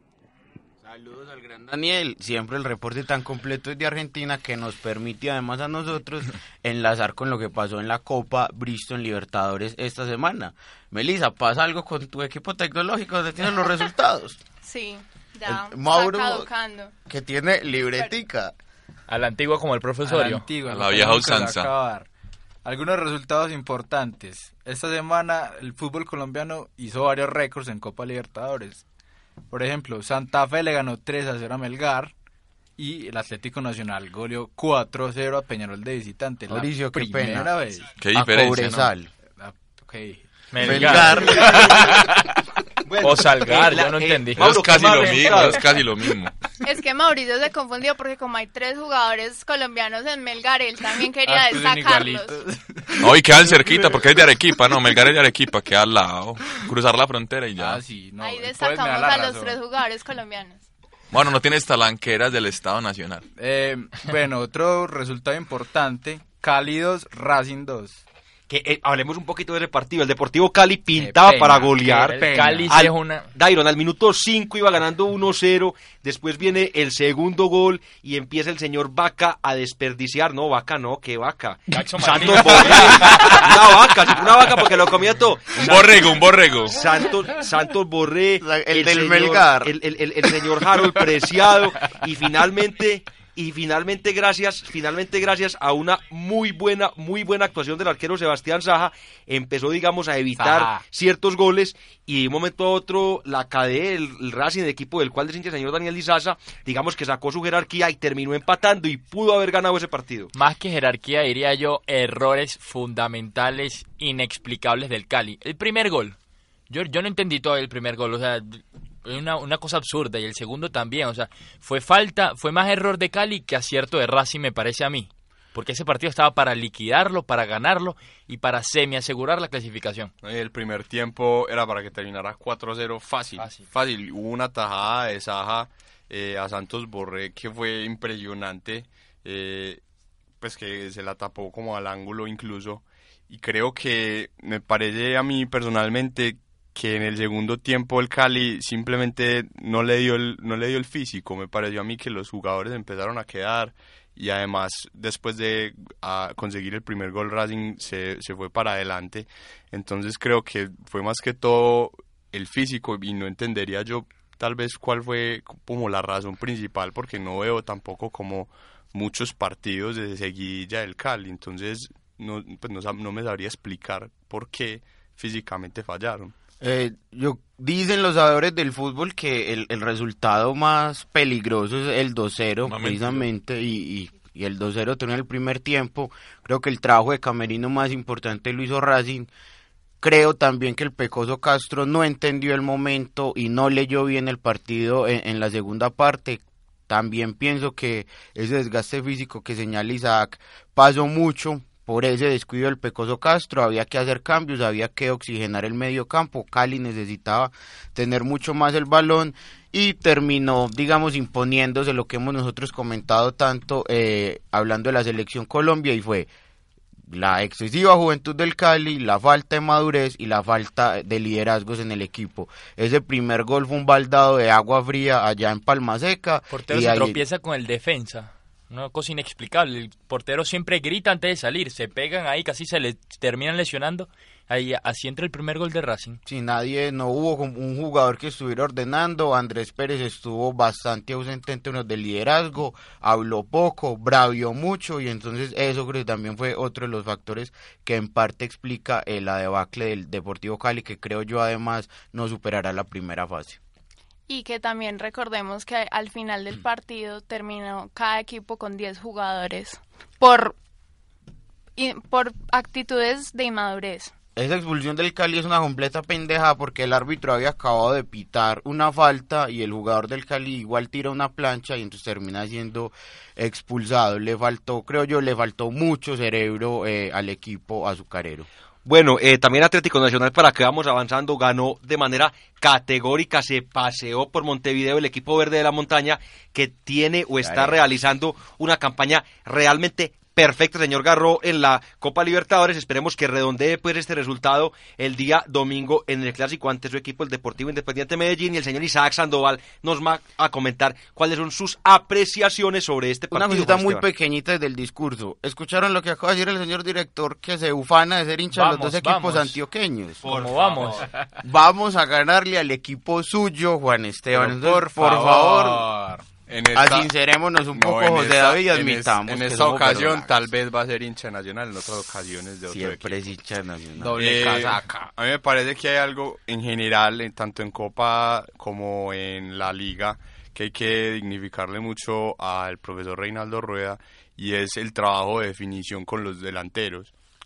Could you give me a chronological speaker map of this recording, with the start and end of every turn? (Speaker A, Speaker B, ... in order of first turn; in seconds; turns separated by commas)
Speaker A: 0.8-14.4, Speaker B: 14.6-16.9, Speaker A: 15.5-16.5, Speaker A: 17.1-18.5, Speaker C: 19.1-20.5, Speaker D: 20.1-22.1, Speaker E: 20.7-21.7, Speaker D: 22.6-28.9, Speaker D: 29.5-32.1, Speaker D: 32.8-37.9, Speaker A: 36.5-37.5, Speaker E: 38.0-38.9, Speaker A: 38.1-39.1, Speaker D: 39.4-42.1, Speaker C: 40.5-41.6, Speaker A: 40.6-41.8, Speaker F: 42.9-45.7, Speaker C: 43.0-45.1, Speaker E: 44.4-46.3, Speaker B: 46.6-52.4, Speaker D: 51.2-55.0, Speaker E: 53.0-57.8, Speaker D: 57.6-59.6, Speaker B: 58.2-60.6, Speaker E: 61.1-63.2, Speaker D: 63.4-68.0, Speaker F: 68.5-110.3, Speaker D: 70.9-72.7, Speaker C: 71.8-73.3, Speaker C: 81.7-83.5, Speaker E: 85.5-86.8, Speaker A: 88.4-89.8, Speaker D: 100.4-100.8, Speaker C: 110.3-116.2, Speaker C: 116.7-130.1, Speaker G: 130.2-139.8, Speaker G: 140.4-176.3, Speaker A: 176.6-189.3, Speaker E: 182.7-183.2, Speaker A: 190.0-216.3, Speaker A: 217.1-227.2, Speaker C: 226.5-236.2, Speaker A: 236.3-253.6, Speaker B: 254.3-260.6, Speaker B: 261.8-264.1, Speaker A: 264.4-278.5, Speaker F: 278.9-304.1, Speaker A: 287.4-287.9, Speaker A: 303.3-310.2, Speaker C: 308.5-309.6, Speaker F: 310.2-311.1, Speaker C: 310.2-311.1, Speaker A: 311.4-315.9, Speaker D: 314.3-316.3, Speaker G: 316.5-317.1, Speaker A: 316.8-320.5, Speaker G: 317.7-323.2, Speaker A: 322.7-324.7, Speaker D: 324.0-325.1, Speaker G: 324.2-337.1